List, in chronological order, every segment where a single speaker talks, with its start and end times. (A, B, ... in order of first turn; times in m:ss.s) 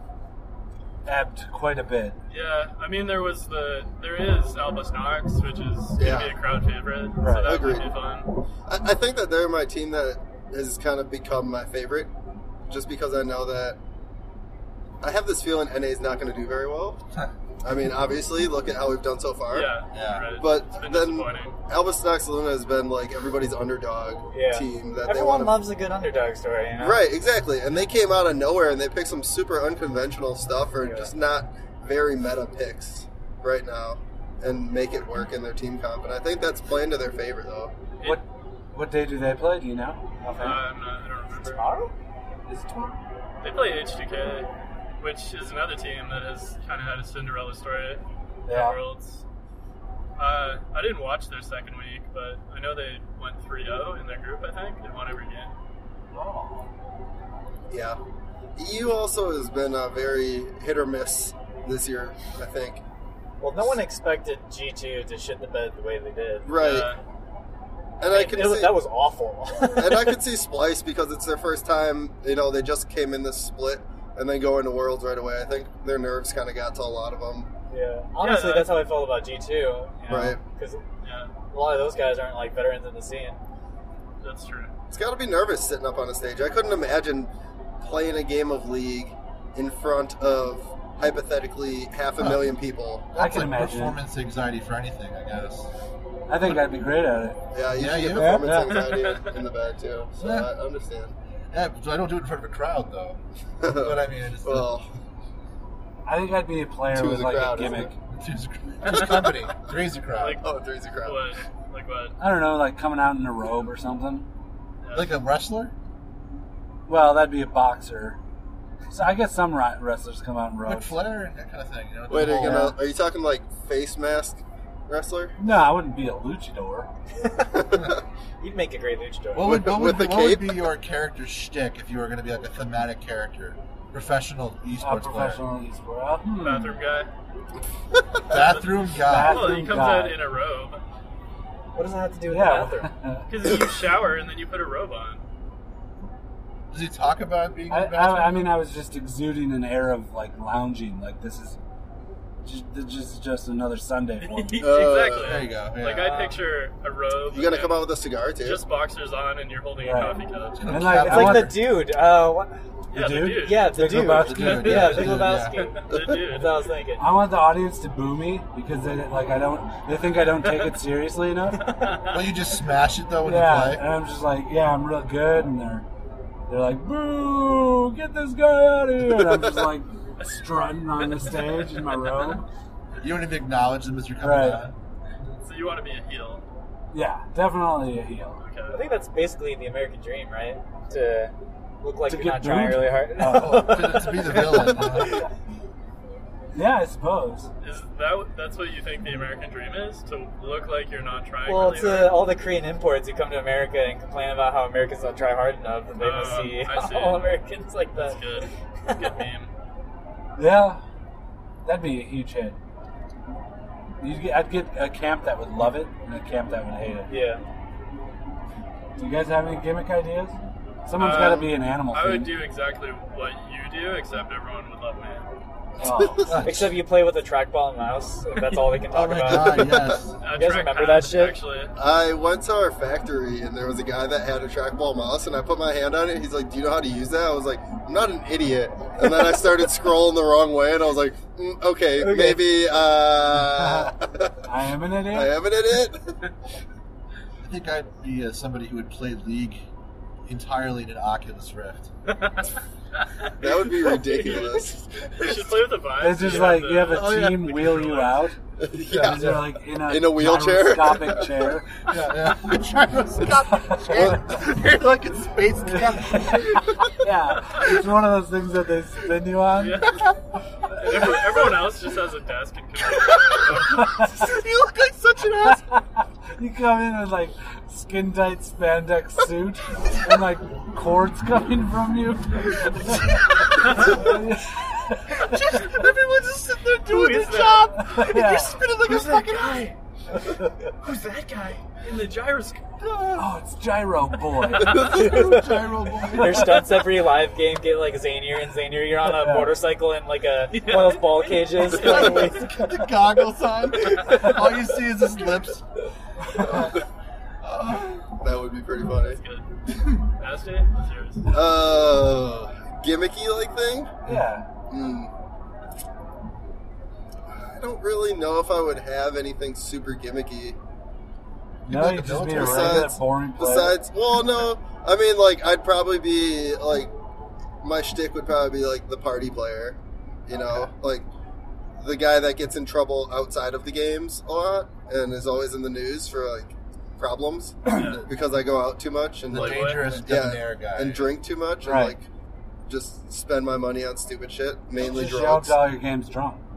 0:01.0-0:02.2 A
0:02.3-0:08.3 B
0:06.0-0:06.4 C
0:07.2-0:07.6 A
0:07.4-0:08.0 C
0:08.6-0:12.1 C
0:12.7-0:13.8 C
0:15.0-0:17.0 C
0:17.6-0:19.7 C
0:19.5-0:21.6 B
0:19.9-0:20.3 D
0:20.4-0:25.6 C
0:24.3-0:27.0 E
0:26.8-0:37.7 C
0:30.8-0:31.1 E
0:38.0-0:40.6 A
0:40.4-0:41.6 B
0:41.4-0:41.9 E
0:42.5-0:43.0 A
0:43.4-0:44.5 B
0:45.0-0:49.2 B
0:48.4-0:48.8 A
0:50.2-0:55.5 B
0:56.1-0:56.7 A
0:57.7-0:58.0 C
0:58.6-1:02.8 C
1:03.4-1:06.5 E
1:06.4-1:06.9 C
1:06.5-1:07.0 B
1:08.0-1:08.8 C
1:08.0-1:10.2 E
1:09.7-1:17.5 C
1:17.7-1:20.8 E
1:18.2-1:18.8 B
1:20.1-1:20.4 C
1:21.0-1:21.3 B
1:21.5-1:23.4 E
1:24.2-1:24.7 B
1:24.9-1:33.1 C
1:32.2-1:32.4 D
1:33.1-1:35.7 D
1:33.1-1:34.0 A
1:36.3-1:37.4 A
1:37.5-1:41.1 C
1:37.7-1:38.5 D
1:38.2-1:38.4 E
1:38.3-1:38.8 A
1:38.7-1:39.4 B
1:40.2-1:40.5 D
1:41.5-1:44.7 D
1:43.6-1:44.8 C
1:46.0-1:48.0 A
1:46.9-1:47.9 C
1:48.1-1:50.4 D
1:48.8-1:49.4 B
1:50.2-1:50.4 B
1:50.4-1:51.2 C
1:51.0-1:52.2 B
1:52.2-1:54.2 A
1:54.8-1:55.2 B
1:54.9-1:55.7 D
1:56.9-1:58.2 A
1:58.9-2:01.0 A
2:00.6-2:02.8 D
2:02.1-2:05.3 C
2:05.4-2:06.9 A
2:07.2-2:07.7 E
2:07.5-2:08.0 C
2:08.4-2:09.7 E
2:09.3-2:15.4 D
2:09.4-2:10.7 C
2:14.8-2:16.8 A
2:16.4-2:17.1 B
2:18.3-2:19.6 D
2:18.3-2:20.8 B
2:19.0-2:20.2 A
2:21.7-2:22.9 E
2:22.3-2:23.3 A
2:23.3-2:25.2 B
2:26.7-2:28.4 D
2:27.7-2:31.6 A
2:32.4-2:34.7 A
2:34.2-2:40.7 B
2:34.6-2:35.4 C
2:35.2-2:36.1 D
2:36.0-2:36.4 E
2:37.3-2:38.6 C
2:39.8-2:41.6 A
2:40.5-2:41.7 D
2:40.9-2:42.5 E
2:42.9-2:46.7 B
2:42.9-2:45.3 A
2:43.4-2:47.0 E
2:44.2-2:45.6 D
2:45.9-2:46.2 C
2:47.0-2:51.6 A
2:50.4-2:50.7 B
2:51.6-2:52.3 B
2:51.6-2:52.0 E
2:52.1-2:53.8 D
2:53.2-2:55.8 A
2:56.5-3:02.4 A
2:59.1-2:59.6 C
3:01.0-3:02.4 B
3:03.0-3:04.7 D
3:04.2-3:04.7 A
3:05.4-3:06.4 B
3:06.9-3:08.4 A
3:08.4-3:08.8 B
3:08.7-3:15.2 E
3:12.1-3:14.0 A
3:13.3-3:15.2 D
3:16.5-3:17.5 A
3:17.6-3:22.2 B
3:21.4-3:29.2 E
3:26.0-3:27.3 B
3:27.9-3:29.5 B
3:30.4-3:30.8 A
3:31.6-3:32.6 A
3:34.0-3:37.1 A
3:37.1-3:37.4 E
3:39.0-3:42.3 A
3:41.0-3:45.2 B
3:45.8-3:46.3 A
3:45.8-3:46.4 C
3:46.3-3:46.7 D
3:46.4-3:51.4 E
3:48.3-3:48.6 B
3:48.9-3:50.2 D
3:49.3-3:50.0 C
3:50.2-3:51.7 B
3:51.8-4:04.4 C
4:02.0-4:02.5 E
4:03.4-4:05.4 A
4:05.1-4:06.2 C
4:07.4-4:09.6 D
4:10.2-4:11.9 D
4:12.1-4:18.3 B
4:13.4-4:15.6 C
4:16.0-4:18.4 A
4:16.9-4:17.4 D
4:18.6-4:21.4 C
4:18.9-4:21.7 A
4:19.1-4:19.4 D
4:21.9-4:26.8 D
4:23.5-4:24.1 A
4:25.7-4:29.8 A
4:29.6-4:30.0 B
4:30.8-4:34.1 B
4:30.9-4:31.2 D
4:33.0-4:35.6 D
4:33.7-4:34.2 A
4:35.4-4:45.8 A
4:42.9-4:44.1 D
4:43.6-4:43.9 B
4:45.2-4:49.7 D
4:46.8-4:47.9 B
4:47.8-4:48.6 A
4:48.7-4:49.7 E
4:50.8-4:52.7 B
4:52.8-4:53.2 D
4:53.1-4:54.9 A
4:54.6-4:55.0 B
4:54.7-4:56.7 D
4:54.7-5:02.6 E
4:59.0-4:59.6 A
5:00.5-5:02.5 B
5:01.8-5:05.6 D
5:06.4-5:06.6 A
5:07.4-5:08.0 D
5:08.2-5:09.2 C
5:09.0-5:09.5 B
5:10.2-5:11.4 B
5:11.3-5:13.9 C
5:14.0-5:14.4 A
5:14.7-5:15.1 C
5:17.3-5:20.6 C
5:21.6-5:23.8 A
5:21.7-5:22.9 D
5:22.3-5:26.9 C
5:27.6-5:31.1 C
5:30.3-5:30.7 D
5:31.8-5:42.1 C
5:37.7-5:38.0 B
5:37.8-5:38.0 D
5:39.3-5:41.1 D
5:39.3-5:39.9 B
5:41.6-5:42.0 A
5:42.7-5:45.6 C
5:44.8-5:46.4 A